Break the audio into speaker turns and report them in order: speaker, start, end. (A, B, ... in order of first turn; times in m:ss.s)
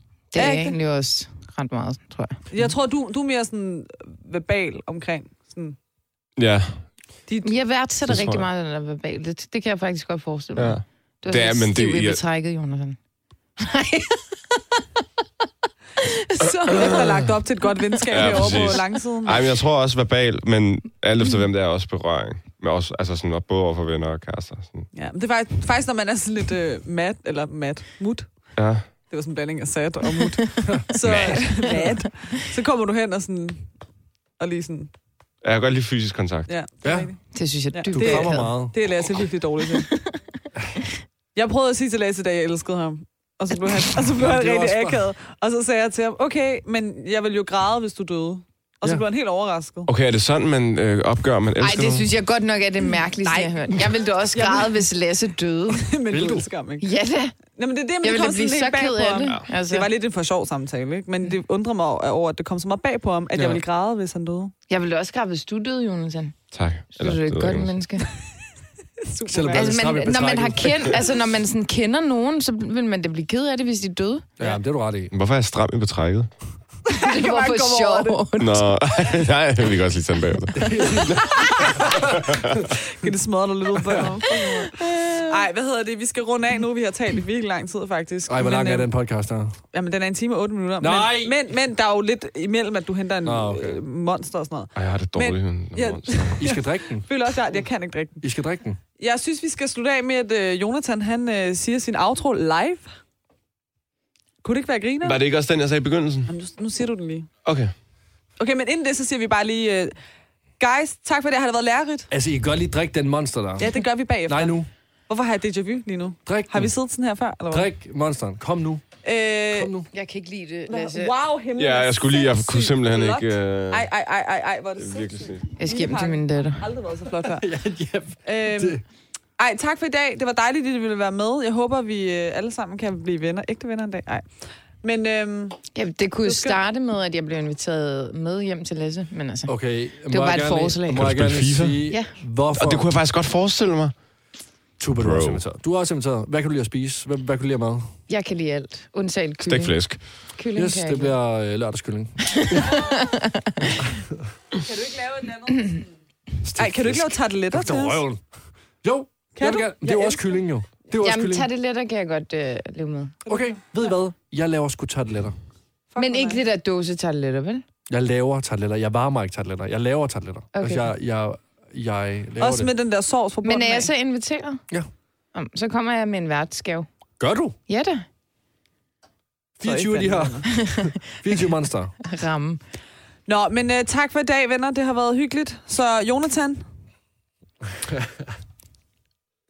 0:00.3-0:02.5 A
0:00.4-0:00.8 B
0:02.5-0:05.8 B
0:06.4-0:06.9 C
0:07.3-0:07.5 B
0:07.4-0:13.0 A
0:08.0-0:08.5 C
0:10.6-0:12.2 C
0:13.6-0:14.8 A
0:16.0-0:17.3 A
0:16.7-0:19.4 B
0:18.0-0:18.4 A
0:18.1-0:24.9 C
0:24.9-0:28.3 B
0:28.6-0:28.8 C
0:29.1-0:33.7 B
0:30.6-0:31.4 D
0:31.0-0:31.8 C
0:31.6-0:32.3 A
0:34.4-0:34.9 B
0:35.4-0:36.5 C
0:36.5-0:37.2 B
0:36.8-0:37.1 D
0:37.3-0:38.5 A
0:37.7-0:40.0 B
0:37.9-0:38.8 D
0:41.3-0:49.9 B
0:44.1-0:45.1 D
0:49.9-0:52.1 C
0:51.6-0:55.8 A
0:53.2-0:54.8 B
0:55.7-0:56.9 B
0:56.1-0:56.5 D
0:56.8-0:57.3 A
0:57.5-1:04.5 B
0:58.0-0:59.9 A
1:03.3-1:03.6 D
1:04.7-1:06.4 A
1:06.5-1:07.7 C
1:07.0-1:08.1 A
1:09.0-1:09.9 B
1:09.3-1:11.0 D
1:09.5-1:14.2 A
1:14.4-1:15.1 D
1:15.1-1:16.3 C
1:16.9-1:18.2 B
1:16.9-1:18.7 A
1:18.4-1:22.6 C
1:20.5-1:22.7 D
1:20.7-1:21.4 A
1:21.4-1:21.9 B
1:22.7-1:28.9 B
1:23.7-1:24.7 D
1:24.6-1:25.4 A
1:28.3-1:29.6 D
1:29.7-1:38.2 B
1:30.8-1:31.4 D
1:33.2-1:33.8 D
1:34.8-1:36.4 C
1:36.4-1:37.1 D
1:38.2-1:38.8 D
1:39.0-1:42.8 B
1:44.4-1:45.2 B
1:45.0-1:46.3 C
1:46.3-1:47.3 B
1:47.4-1:47.7 C
1:48.4-1:49.9 B
1:50.6-1:52.1 B
1:52.1-1:53.7 D
1:53.6-1:54.6 B
1:54.3-1:54.7 D
1:55.1-1:57.7 B
1:56.2-1:56.7 D
1:57.5-1:58.8 D
1:59.0-1:59.7 B
1:59.5-1:59.9 D
1:59.9-2:01.1 A
2:00.7-2:07.4 B
2:01.6-2:03.9 C
2:04.8-2:05.4 C
2:05.6-2:06.6 A
2:07.2-2:08.8 D
2:08.2-2:08.8 B
2:09.4-2:14.3 B
2:14.8-2:15.6 B
2:15.7-2:19.5 A
2:16.2-2:16.6 B
2:19.4-2:22.9 D
2:20.1-2:21.1 A
2:20.9-2:21.8 C
2:22.6-2:23.9 C
2:24.8-2:27.9 D
2:25.0-2:25.4 C
2:28.1-2:29.8 A
2:29.4-2:30.0 C
2:30.4-2:31.1 A
2:30.6-2:32.8 D
2:32.3-2:33.9 A
2:33.8-2:34.2 D
2:34.6-2:35.8 B
2:36.4-2:38.2 D
2:36.6-2:38.0 B
2:38.8-2:41.5 D
2:39.4-2:40.4 B
2:41.0-2:43.4 A
2:43.2-2:45.4 D
2:45.9-2:46.4 B
2:46.0-2:47.6 A
2:47.9-2:52.7 D
2:50.5-2:50.9 A
2:52.4-2:53.9 B
2:53.4-2:54.6 A
2:55.3-2:56.9 A
2:57.2-2:57.6 D
2:57.7-2:58.0 A
2:59.6-3:01.9 D
2:59.6-3:00.5 B
3:00.6-3:01.0 A
3:02.0-3:02.6 A
3:03.3-3:06.6 B
3:07.8-3:08.1 D